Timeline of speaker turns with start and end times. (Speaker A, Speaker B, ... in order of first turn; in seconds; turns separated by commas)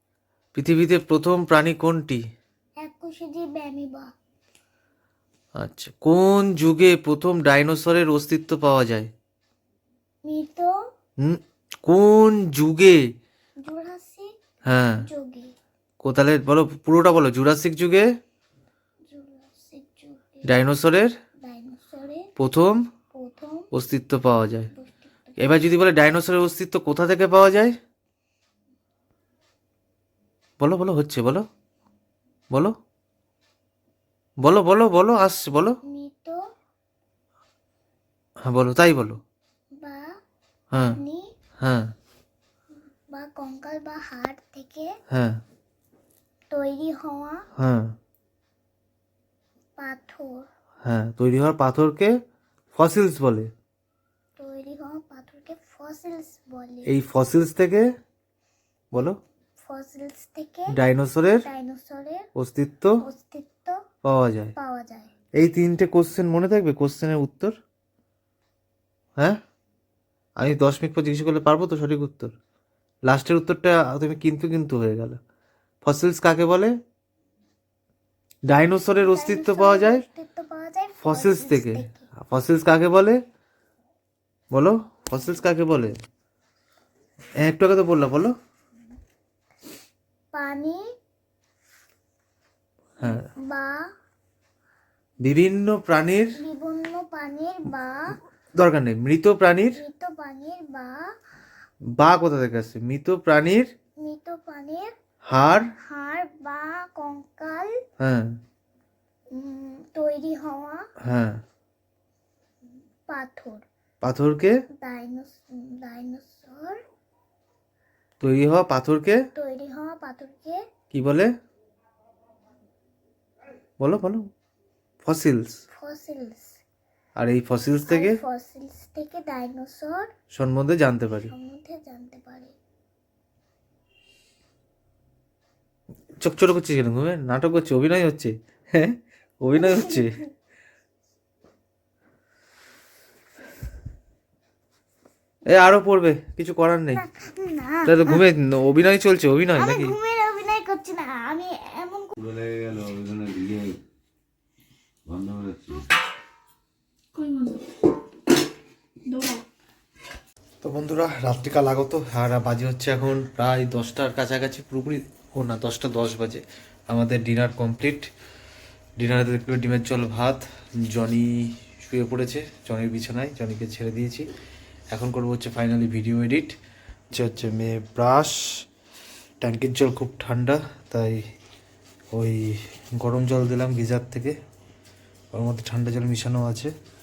Speaker A: 0.6-2.2, Speaker B: 2.8-4.1, Speaker A: 5.6-9.1, Speaker B: 10.2-10.7, Speaker A: 11.2-13.0, Speaker B: 13.6-14.3, Speaker A: 14.7-15.1, Speaker B: 15.0-15.5, Speaker A: 16.0-18.1, Speaker B: 19.1-20.5, Speaker A: 20.4-21.1, Speaker B: 21.4-22.3, Speaker A: 22.4-22.8, Speaker B: 23.1-23.7, Speaker A: 23.7-24.7, Speaker B: 24.8-25.6, Speaker A: 25.4-27.8, Speaker A: 30.6-31.4, Speaker A: 34.4-35.8, Speaker B: 35.9-36.4, Speaker A: 38.4-39.2, Speaker B: 39.7-40.1, Speaker A: 40.7-41.0, Speaker B: 40.9-41.3, Speaker A: 41.6-41.9, Speaker B: 43.1-45.0, Speaker A: 45.1-45.4, Speaker B: 46.5-47.5, Speaker A: 47.6-47.9, Speaker B: 49.8-50.5, Speaker A: 50.9-52.1, Speaker A: 52.7-53.5, Speaker B: 54.4-56.9, Speaker A: 56.9-57.9, Speaker B: 59.6-60.7, Speaker A: 60.7-61.5, Speaker B: 61.5-62.3, Speaker A: 62.4-63.0, Speaker B: 63.0-63.8, Speaker A: 64.0-64.5, Speaker B: 64.6-65.1, Speaker A: 65.4-67.5, Speaker A: 70.4-72.3, Speaker A: 73.1-75.2, Speaker A: 75.8-76.7, Speaker A: 78.5-80.0, Speaker B: 79.0-82.1, Speaker A: 81.0-83.2, Speaker A: 84.5-85.9, Speaker A: 87.4-88.3, Speaker B: 90.3-90.8, Speaker B: 93.0-93.9, Speaker A: 95.2-96.4, Speaker B: 96.4-98.1, Speaker A: 98.6-99.8, Speaker B: 99.8-101.0, Speaker A: 102.0-103.7, Speaker B: 104.0-104.9, Speaker A: 105.3-105.7, Speaker B: 105.8-107.8, Speaker A: 108.0-108.3, Speaker B: 109.3-110.9, Speaker A: 111.0-111.4, Speaker B: 113.1-113.7, Speaker A: 114.0-114.5, Speaker B: 114.8-116.8, Speaker A: 118.2-119.2, Speaker B: 119.3-120.6, Speaker A: 120.9-121.3, Speaker A: 123.8-124.3, Speaker A: 125.0-125.6, Speaker B: 125.7-126.6, Speaker A: 127.2-128.2, Speaker B: 127.9-130.1, Speaker A: 130.3-131.3, Speaker B: 131.3-132.5, Speaker A: 136.2-140.2, Speaker B: 139.6-140.3, Speaker A: 145.5-147.1, Speaker B: 147.0-148.2, Speaker A: 147.8-150.0, Speaker B: 149.6-152.2, Speaker C: 152.2-153.8, Speaker C: 155.1-155.8, Speaker A: 160.6-168.1, Speaker A: 169.0-174.2, Speaker A: 174.9-176.6, Speaker A: 177.1-178.4, Speaker A: 179.4-181.2, Speaker A: 182.1-184.4, Speaker A: 185.3-186.7